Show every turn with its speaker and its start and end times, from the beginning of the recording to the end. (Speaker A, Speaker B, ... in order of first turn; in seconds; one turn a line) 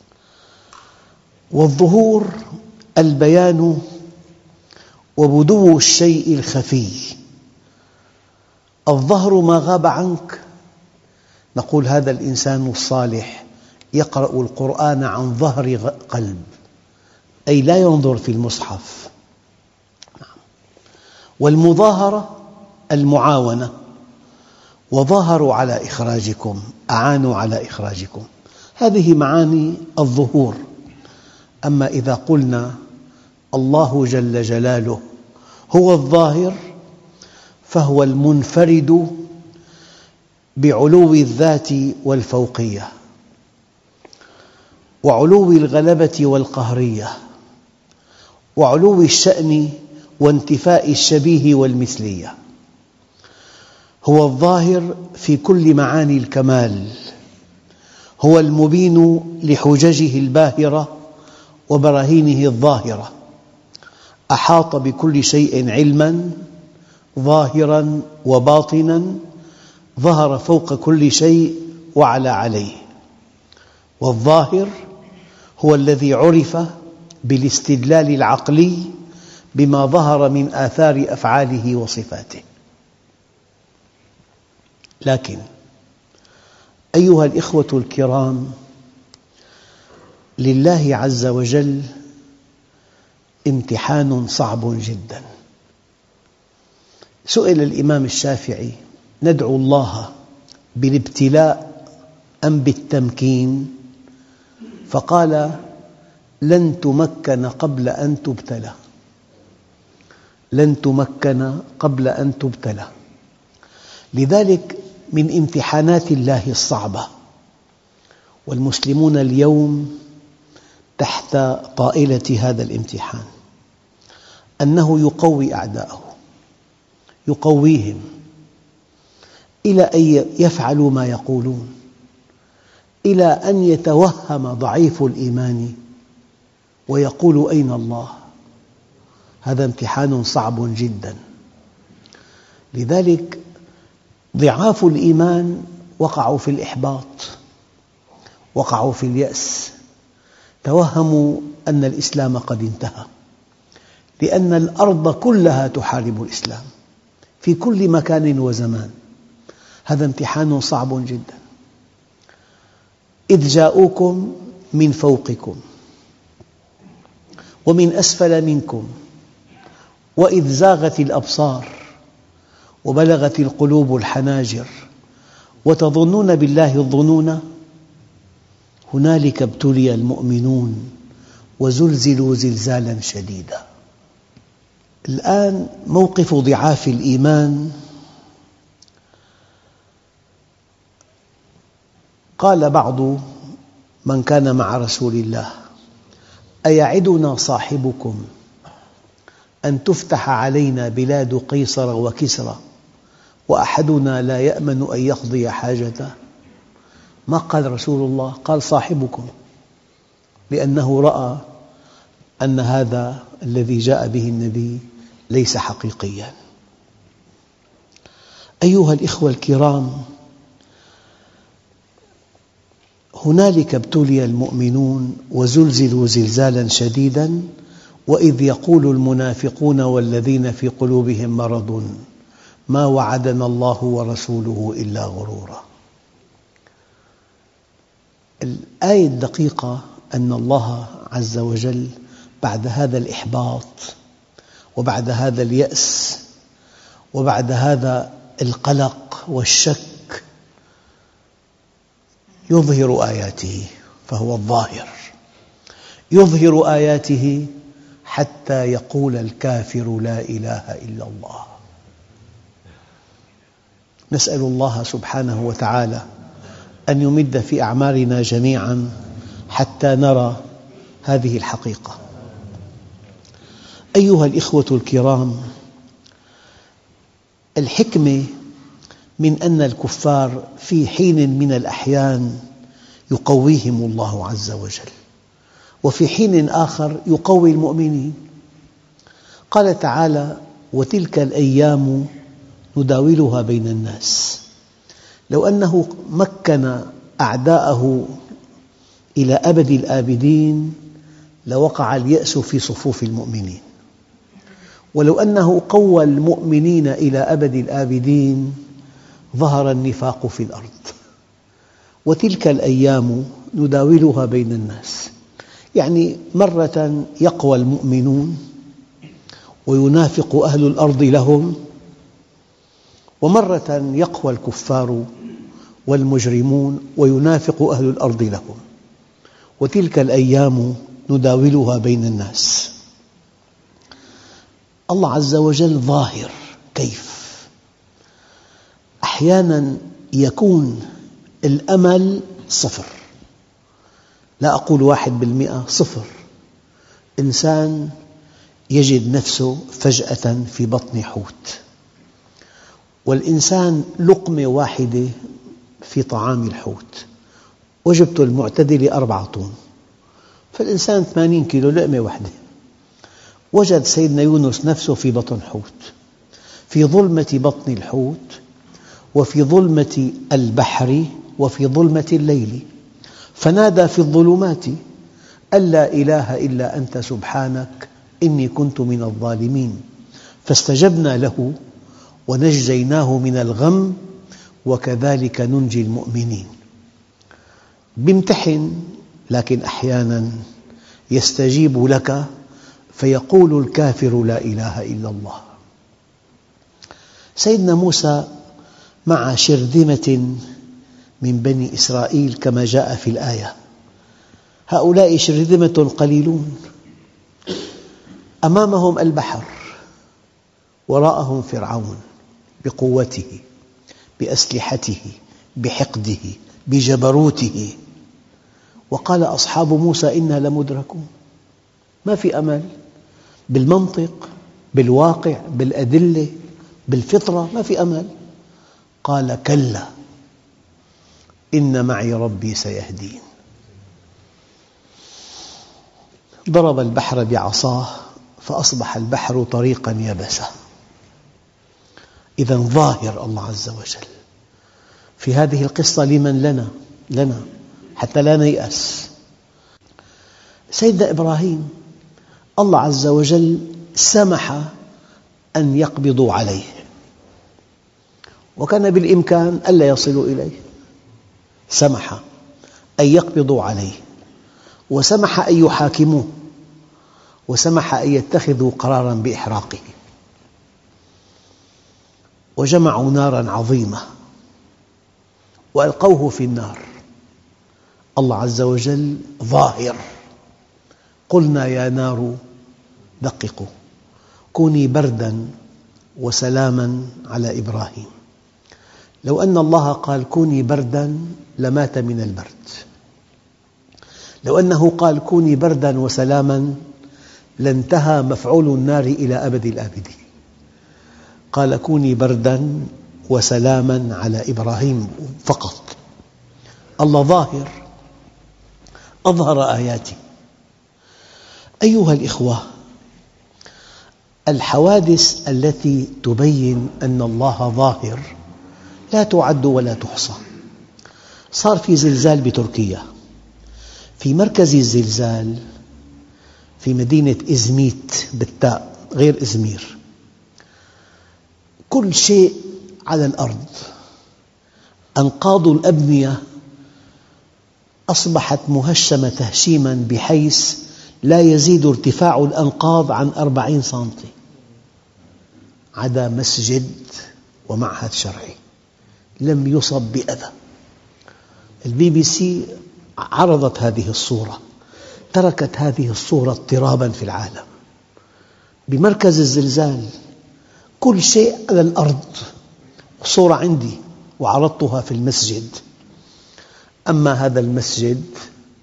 Speaker A: 1.6-2.3
Speaker A: 3.0-3.8
Speaker A: 5.2-7.2
Speaker A: 8.9-10.4
Speaker A: 11.6-16.5
Speaker A: 17.5-19.1
Speaker A: 21.4-22.4
Speaker A: 22.9-23.7
Speaker A: 24.9-28.3
Speaker A: 28.8-30.6
Speaker A: 31.7-32.7
Speaker A: 33.5-35.0
Speaker A: 35.7-36.6
Speaker A: 37.7-39.2
Speaker A: 40.6-42.9
Speaker A: 45.0-47.1
Speaker A: 48.6-52.3
Speaker A: 54.0-57.0
Speaker A: 58.2-60.9
Speaker A: 61.7-63.1
Speaker A: 64.3-66.4
Speaker A: 67.2-69.2
Speaker A: 70.0-72.8
Speaker A: 74.0-74.7
Speaker A: 75.6-76.7
Speaker A: 77.3-78.9
Speaker A: 79.5-82.4
Speaker A: 85.0-85.4
Speaker A: 87.0-88.5
Speaker A: 90.4-91.9
Speaker A: 93.5-95.2
Speaker A: 97.3-100.1
Speaker A: 100.8-101.7
Speaker A: 102.5-103.8
Speaker A: 104.9-105.6
Speaker A: 106.5-108.8
Speaker A: 110.5-112.9
Speaker A: 114.2-117.1
Speaker A: 118.5-119.9
Speaker A: 121.0-123.3
Speaker A: 124.6-126.1
Speaker A: 127.3-128.0
Speaker A: 129.7-131.7
Speaker A: 133.1-135.8
Speaker A: 136.9-138.1
Speaker A: 139.4-141.2
Speaker A: 142.7-143.4
Speaker A: 144.4-147.3
Speaker A: 148.6-149.7
Speaker A: 150.6-153.1
Speaker A: 154.2-156.7
Speaker A: 157.4-158.9
Speaker A: 159.9-161.4
Speaker A: 163.3-165.6
Speaker A: 167.7-168.9
Speaker A: 170.2-171.7
Speaker A: 172.8-174.7
Speaker A: 175.7-177.4
Speaker A: 178.9-180.9
Speaker A: 181.6-183.6
Speaker A: 185.1-187.8
Speaker A: 192.4-193.2
Speaker A: 194.1-195.5
Speaker A: 196.7-198.2
Speaker A: 199.7-202.6
Speaker A: 203.5-206.1
Speaker A: 207.3-209.3
Speaker A: 210.5-211.4
Speaker A: 212.4-216.3
Speaker A: 218.6-220.0
Speaker A: 223.2-227.4
Speaker A: 228.1-231.9
Speaker A: 232.7-235.6
Speaker A: 238.4-241.9
Speaker A: 242.4-243.9
Speaker A: 244.8-246.2
Speaker A: 247.1-250.2
Speaker A: 252.5-255.0
Speaker A: 256.1-257.5
Speaker A: 258.1-261.5
Speaker A: 264.1-266.0
Speaker A: 266.9-268.9
Speaker A: 269.5-270.4
Speaker A: 271.1-272.0
Speaker A: 274.0-275.4
Speaker A: 277.6-278.3
Speaker A: 279.2-282.4
Speaker A: 283.1-284.9
Speaker A: 285.8-288.2
Speaker A: 289.5-292.1
Speaker A: 292.8-294.4
Speaker A: 295.3-298.1
Speaker A: 299.2-300.8
Speaker A: 301.5-303.6
Speaker A: 304.9-308.6
Speaker A: 309.4-310.9
Speaker A: 312.1-315.1
Speaker A: 315.8-318.4
Speaker A: 319.7-321.6
Speaker A: 323.2-325.1
Speaker A: 325.9-328.6
Speaker A: 329.6-332.7
Speaker A: 334.9-337.5
Speaker A: 339.0-340.8
Speaker A: 341.4-342.9
Speaker A: 344.4-346.1
Speaker A: 347.2-347.9
Speaker A: 348.7-351.6
Speaker A: 353.1-355.1
Speaker A: 355.8-357.1
Speaker A: 357.9-359.5
Speaker A: 360.5-362.3
Speaker A: 363.5-365.9
Speaker A: 366.7-368.4
Speaker A: 369.1-372.6
Speaker A: 373.4-374.8
Speaker A: 375.6-379.8
Speaker A: 380.4-381.6
Speaker A: 382.3-384.0
Speaker A: 384.7-386.5
Speaker A: 388.0-390.3
Speaker A: 391.1-392.3
Speaker A: 393.0-395.5
Speaker A: 397.4-398.3
Speaker A: 399.1-400.4
Speaker A: 401.2-403.5
Speaker A: 404.7-406.6
Speaker A: 408.5-409.7
Speaker A: 410.9-412.0
Speaker A: 412.6-413.4
Speaker A: 414.2-417.8
Speaker A: 418.9-421.1
Speaker A: 422.1-422.7
Speaker A: 423.5-426.3
Speaker A: 426.9-428.1
Speaker A: 429.1-429.9
Speaker A: 431.6-433.2
Speaker A: 436.5-440.5
Speaker A: 442.4-444.1
Speaker A: 445.2-447.4
Speaker A: 448.0-449.1
Speaker A: 450.8-451.7
Speaker A: 452.6-454.7
Speaker A: 455.6-456.8
Speaker A: 458.6-460.6
Speaker A: 461.7-462.2
Speaker A: 463.0-464.0
Speaker A: 464.9-466.3
Speaker A: 467.5-469.9
Speaker A: 472.6-474.0
Speaker A: 475.8-476.8
Speaker A: 478.2-480.0
Speaker A: 481.3-482.4
Speaker A: 483.2-483.7
Speaker A: 484.5-485.4
Speaker A: 486.2-488.1
Speaker A: 489.2-492.8
Speaker A: 494.4-496.8
Speaker A: 497.6-500.2
Speaker A: 501.5-506.0
Speaker A: 507.0-507.7
Speaker A: 509.3-510.2
Speaker A: 511.8-512.6
Speaker A: 514.5-518.3
Speaker A: 519.1-520.4
Speaker A: 521.5-523.0
Speaker A: 524.2-525.6
Speaker A: 526.8-530.0
Speaker A: 531.9-533.8
Speaker A: 535.2-536.4
Speaker A: 538.1-544.3
Speaker A: 546.0-548.6
Speaker A: 549.4-550.5
Speaker A: 551.9-552.7
Speaker A: 553.2-554.6
Speaker A: 555.3-557.6
Speaker A: 558.9-560.1
Speaker A: 561.0-562.5
Speaker A: 563.2-565.8
Speaker A: 567.1-568.3